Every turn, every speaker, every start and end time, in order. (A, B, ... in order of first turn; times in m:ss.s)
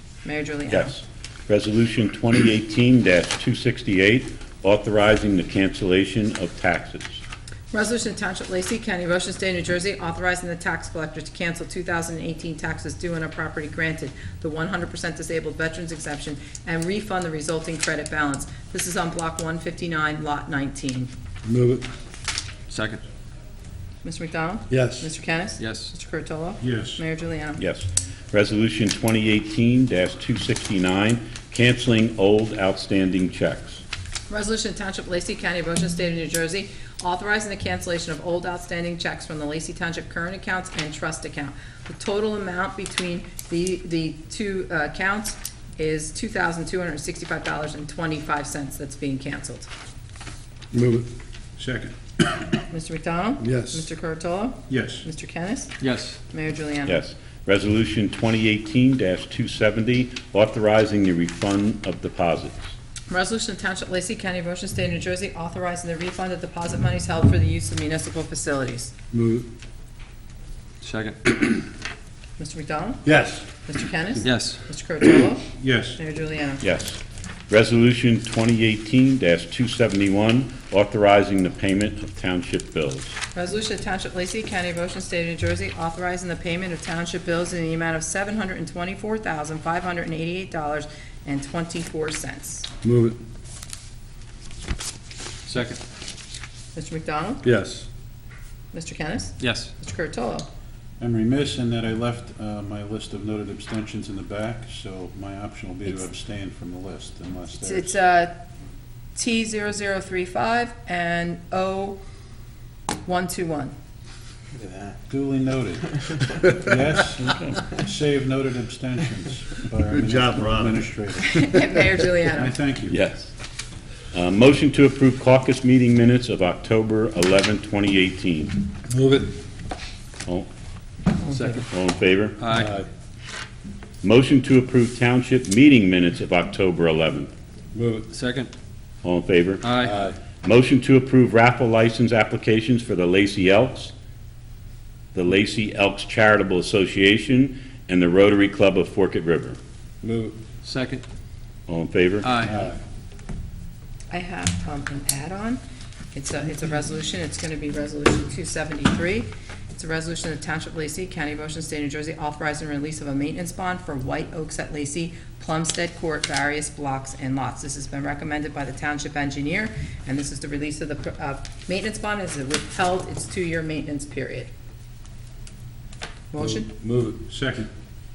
0:00.2-0:01.0 A
0:00.7-0:07.2 B
0:07.7-0:21.1 A
0:21.4-0:21.8 C
0:22.7-0:23.0 D
0:24.0-0:27.6 A
0:24.7-0:25.1 C
0:25.6-0:25.9 D
0:26.6-0:27.0 E
0:27.6-0:33.8 B
0:34.3-0:49.7 A
0:50.7-0:51.1 C
0:51.6-0:52.3 E
0:52.7-0:55.8 A
0:53.4-0:53.9 C
0:54.7-0:55.1 E
0:55.8-0:56.2 D
0:56.3-0:57.0 A
0:56.8-1:02.7 B
1:03.1-1:08.9 A
1:09.1-1:09.5 C
1:10.8-1:11.3 D
1:12.4-1:13.0 A
1:13.0-1:13.5 C
1:13.7-1:16.6 A
1:14.2-1:14.6 D
1:15.6-1:16.0 E
1:16.6-1:23.2 B
1:23.3-1:32.7 A
1:32.8-1:33.2 C
1:35.5-1:35.8 D
1:36.8-1:37.4 A
1:37.4-1:37.9 C
1:38.7-1:40.5 A
1:39.4-1:39.7 D
1:41.0-1:47.9 E
1:47.6-1:48.3 A
1:49.2-1:52.0 A
1:53.0-1:53.7 A
1:54.6-2:01.6 E
1:59.9-2:00.9 C
2:01.2-2:02.6 A
2:02.3-2:03.0 E
2:02.9-2:03.3 B
2:04.1-2:08.6 B
2:08.9-2:09.3 C
2:11.3-2:11.7 D
2:11.7-2:12.4 B
2:12.4-2:12.7 D
2:12.5-2:12.9 C
2:14.0-2:17.3 B
2:17.7-2:18.1 C
2:18.1-2:18.5 D
2:19.0-2:19.7 B
2:19.6-2:20.0 D
2:19.8-2:20.2 C
2:20.4-2:23.9 B
2:25.1-2:29.6 B
2:30.0-2:30.4 C
2:30.6-2:31.0 D
2:31.7-2:32.3 B
2:32.2-2:32.6 D
2:34.1-2:35.6 A
2:36.1-2:54.5 A
2:56.3-2:56.7 A
2:56.4-2:57.2 C
2:57.3-2:57.7 E